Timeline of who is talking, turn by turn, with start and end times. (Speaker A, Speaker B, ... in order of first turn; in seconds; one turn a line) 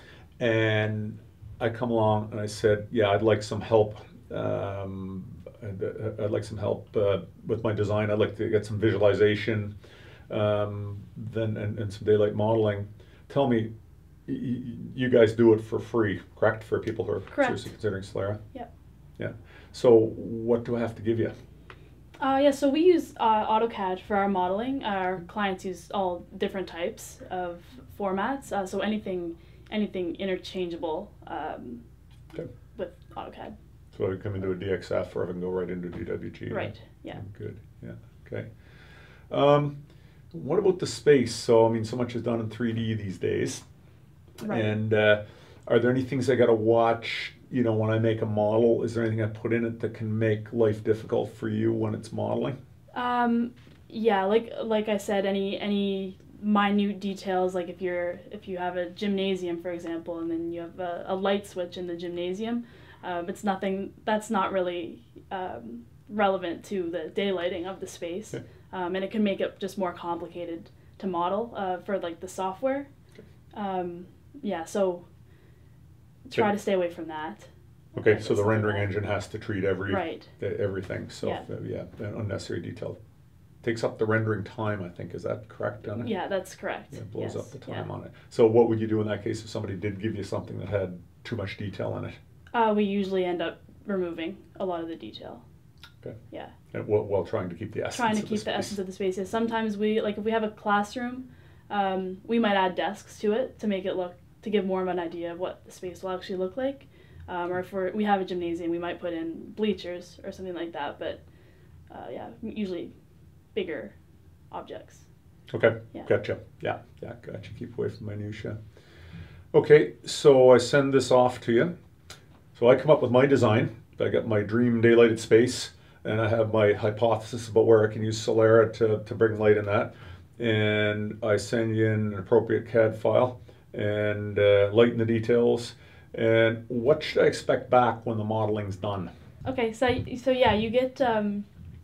Speaker A: 0.4-9.7
Speaker A: 10.3-13.7
Speaker A: 14.2-18.4
Speaker B: 17.3-17.7
Speaker A: 19.2-21.3
Speaker B: 22.2-31.8
Speaker B: 32.7-33.5
Speaker A: 33.9-38.5
Speaker B: 36.5-37.2
Speaker A: 39.3-39.8
Speaker A: 40.3-43.6
Speaker B: 44.4-44.8
Speaker A: 44.4-52.5
Speaker B: 53.0-72.9
Speaker B: 73.5-75.0
Speaker B: 76.3-78.9
Speaker A: 77.9-83.0
Speaker B: 79.9-80.3
Speaker A: 83.6-86.1
Speaker B: 85.9-87.8
Speaker A: 86.9-92.2
Speaker B: 92.5-95.4
Speaker A: 96.7-98.8
Speaker B: 97.9-111.2
Speaker B: 111.9-112.9
Speaker B: 113.5-113.9
Speaker B: 114.5-115.0
Speaker A: 115.5-118.6
Speaker A: 119.5-121.7
Speaker A: 122.5-139.1
Speaker B: 139.4-141.4